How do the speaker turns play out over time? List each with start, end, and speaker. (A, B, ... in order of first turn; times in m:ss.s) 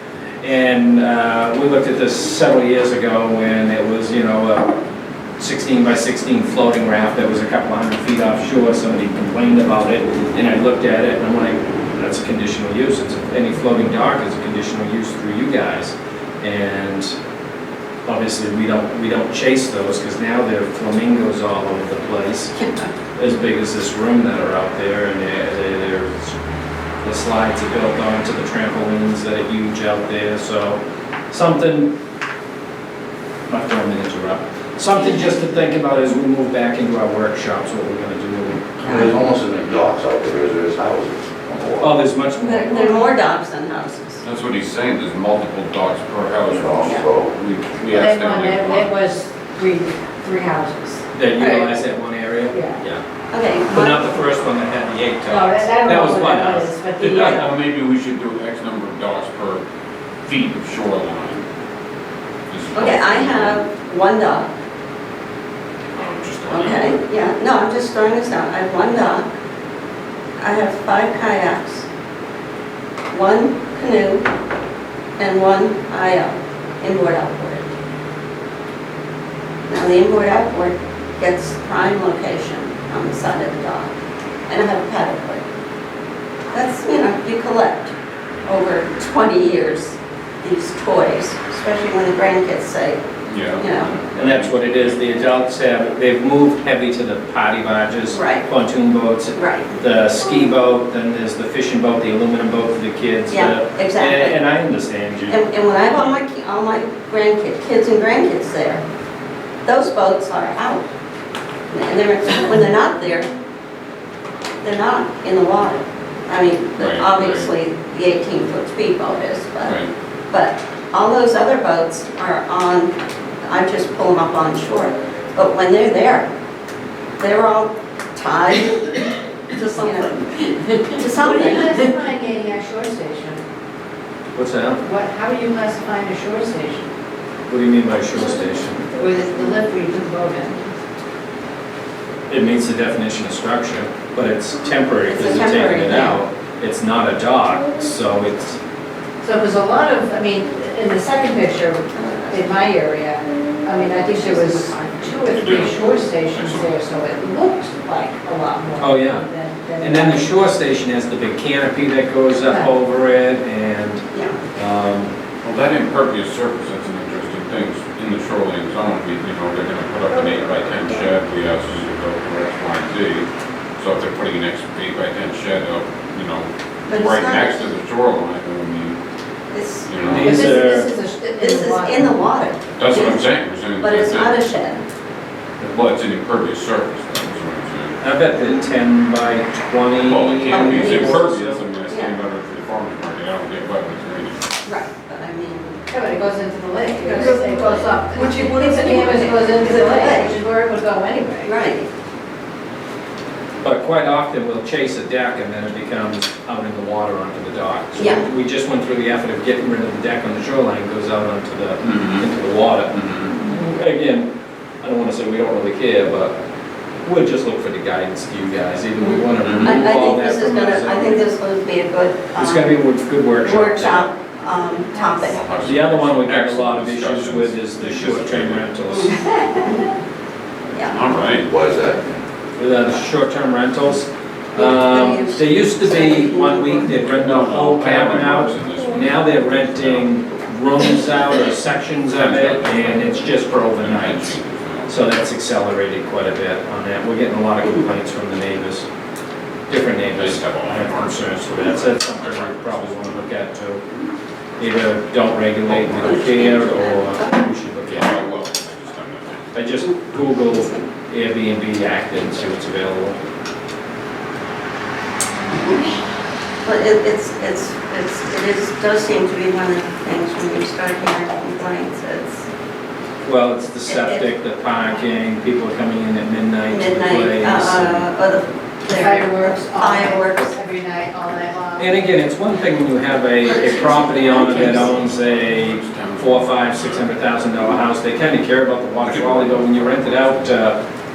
0:00.4-0:04.7 A
0:05.4-0:17.1 A
0:18.0-0:22.6 A
0:23.2-0:26.3 A
0:27.0-0:31.9 A
0:33.5-0:39.0 A
0:38.8-0:41.9 B
0:38.8-0:39.1 C
0:41.8-0:43.1 A
0:42.4-0:44.2 C
0:44.2-0:48.9 D
0:46.5-0:47.3 B
0:47.8-0:51.0 E
0:51.1-0:53.0 A
0:51.4-0:51.8 C
0:52.5-0:52.8 E
0:53.3-0:54.3 C
0:53.7-0:57.4 A
0:55.2-0:57.4 E
0:57.0-0:59.6 D
1:00.2-1:01.4 D
1:02.5-1:03.6 D
1:02.7-1:04.5 C
1:05.9-1:07.0 D
1:06.5-1:09.4 C
1:10.4-1:11.8 C
1:13.1-1:14.2 C
1:15.2-1:17.7 C
1:19.7-1:23.9 C
1:24.5-1:25.4 C
1:26.5-1:27.9 C
1:28.4-1:33.0 C
1:33.3-1:35.0 D
1:33.6-1:33.9 C
1:34.1-1:46.0 A
1:38.1-1:38.5 C
1:39.3-1:39.8 C
1:43.3-1:44.4 C
1:45.2-1:48.8 C
1:49.6-1:50.9 C
1:51.7-1:53.3 C
1:54.6-1:59.8 C
1:56.8-1:57.5 D
1:59.6-1:59.9 D
2:00.3-2:06.3 C
2:07.2-2:11.9 C
2:11.1-2:13.4 E
2:14.3-2:14.8 A
2:14.8-2:16.9 E
2:17.5-2:18.9 A
2:18.9-2:20.7 E
2:22.3-2:28.6 A
2:25.0-2:26.2 C
2:29.2-2:40.4 E
2:31.9-2:32.5 C
2:33.9-2:35.1 C
2:34.8-2:36.8 D
2:38.8-2:39.2 A
2:39.8-2:45.1 A
2:42.4-2:42.7 E
2:44.1-2:44.4 C
2:45.4-2:59.0 D
2:56.9-2:57.7 C
2:59.5-3:00.6 C
2:59.9-3:00.4 D
3:00.0-3:00.9 A
3:00.1-3:02.3 E
3:01.4-3:04.8 C
3:02.7-3:04.4 D
3:05.6-3:08.0 D
3:08.0-3:11.6 A
3:10.0-3:14.4 D
3:10.5-3:12.2 C
3:14.6-3:15.8 C
3:15.9-3:21.6 E
3:16.9-3:20.4 C
3:21.4-3:21.9 C
3:23.6-3:34.3 A
3:28.0-3:28.3 C
3:31.8-3:32.3 D
3:32.9-3:33.3 D
3:34.8-3:36.4 A
3:37.0-3:41.3 A
3:39.0-3:42.8 C
3:39.4-3:39.8 D
3:42.3-3:44.1 A
3:43.4-3:45.4 C
3:44.9-3:45.2 E
3:45.1-3:49.1 D
3:45.6-3:49.2 A
3:49.2-3:49.8 E
3:50.7-3:51.0 C
3:50.8-3:51.5 D
3:51.3-3:52.1 B
3:52.6-4:08.9 A
3:54.5-3:57.0 C
3:57.0-4:00.1 D
4:02.1-4:05.0 D
4:09.7-4:13.8 A
4:10.1-4:13.3 D
4:14.6-4:18.2 A
4:15.7-4:16.1 D
4:15.8-4:17.4 C
4:17.8-4:19.5 D
4:19.5-4:23.2 A
4:20.5-4:20.8 C
4:25.5-4:25.9 C
4:26.6-4:32.5 C
4:33.2-4:38.1 A
4:33.8-4:35.0 C
4:36.7-4:40.6 C
4:38.9-4:41.9 E
4:41.8-4:50.8 A
4:43.6-4:44.5 E
4:43.9-4:47.8 D
4:49.0-4:50.7 D